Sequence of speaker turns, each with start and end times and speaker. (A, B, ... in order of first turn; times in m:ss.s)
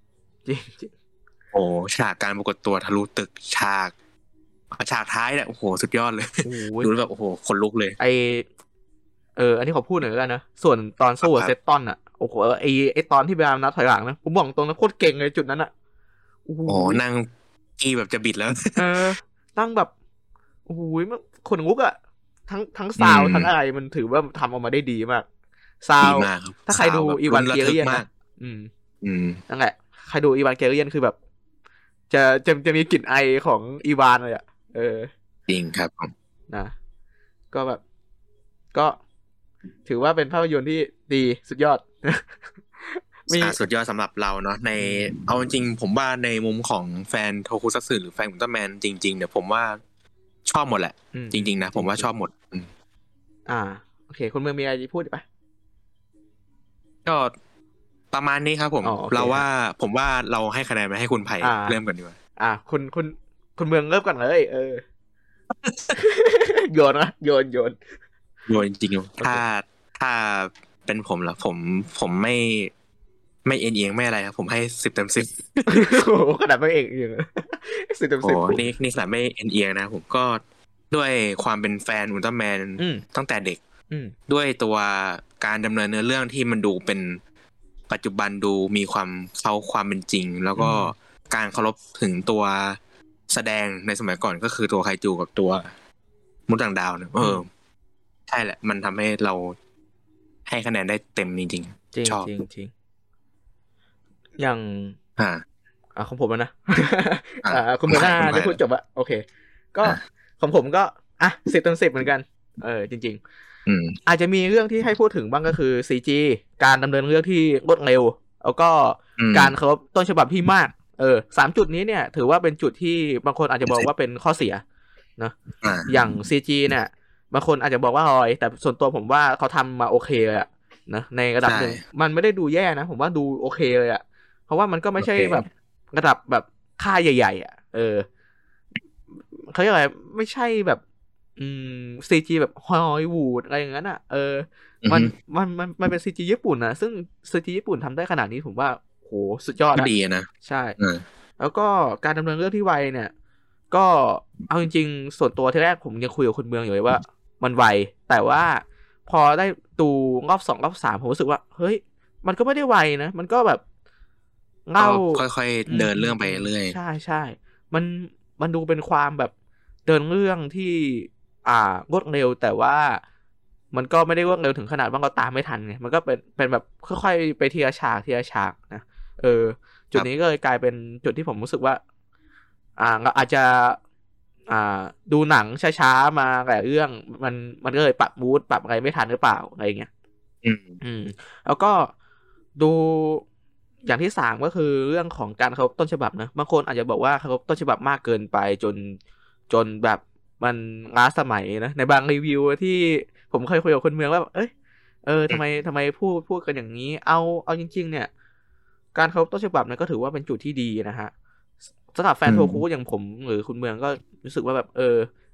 0:00.4-0:00.9 A
0:01.5-0:03.9 B
0:04.7-0:08.0 B
0:06.4-0:06.9 A
0:08.0-0:08.5 A
0:09.4-0:15.7 A
0:11.2-0:11.5 B
0:16.5-0:17.0 A
0:16.7-0:18.8 B
0:18.8-0:19.9 A
0:20.7-0:25.2 A
0:23.0-0:23.5 B
0:25.8-0:28.7 A
0:26.0-0:28.1 B
0:29.0-0:29.4 B
0:29.5-0:31.2 A
0:32.1-0:35.1 A
0:35.5-0:36.1 B
0:37.5-0:37.8 A
0:38.7-0:39.0 A
0:39.8-0:42.2 A
0:42.8-0:43.6 A
0:43.4-0:49.8 B
0:44.8-0:45.1 A
0:50.5-0:52.7 B
0:51.1-0:52.1 A
0:53.5-0:55.2 A
0:57.0-0:57.3 B
0:58.1-1:02.2 B
0:58.8-0:59.4 A
1:01.4-1:01.8 A
1:02.4-1:04.8 A
1:05.6-1:05.9 B
1:05.9-1:07.8 A
1:08.5-1:12.7 B
1:13.4-1:16.0 B
1:15.7-1:18.6 A
1:18.2-1:23.6 B
1:22.8-1:23.0 A
1:24.3-1:27.2 B
1:27.9-1:32.8 B
1:30.5-1:30.9 A
1:33.3-1:35.7 B
1:36.5-1:37.5 B
1:38.3-1:39.6 B
1:40.4-1:42.3 B
1:41.9-1:42.7 A
1:44.4-1:45.0 A
1:45.2-1:45.4 B
1:46.0-1:53.2 A
1:47.4-1:48.6 B
1:53.6-1:54.0 B
1:54.0-2:04.6 A
1:59.2-1:59.5 B
2:05.6-2:06.0 B
2:05.9-2:18.0 A
2:11.4-2:11.8 B
2:15.0-2:15.4 B
2:19.3-2:20.8 A
2:21.4-2:29.9 A
2:24.8-2:25.1 B
2:29.7-2:30.3 B
2:30.4-2:30.8 A
2:31.4-2:33.1 A
2:33.7-2:43.6 A
2:44.7-2:49.3 A
2:44.8-2:46.8 B
2:49.8-2:53.0 A
2:53.7-3:01.8 A
3:02.8-3:03.8 A
3:04.5-3:09.9 A
3:10.4-3:10.8 B
3:10.8-3:11.9 A
3:12.6-3:13.2 A
3:13.8-3:19.0 A
3:19.5-3:24.5 A
3:25.0-3:28.1 A
3:28.9-3:31.1 A
3:31.9-3:35.1 A
3:32.2-3:32.6 B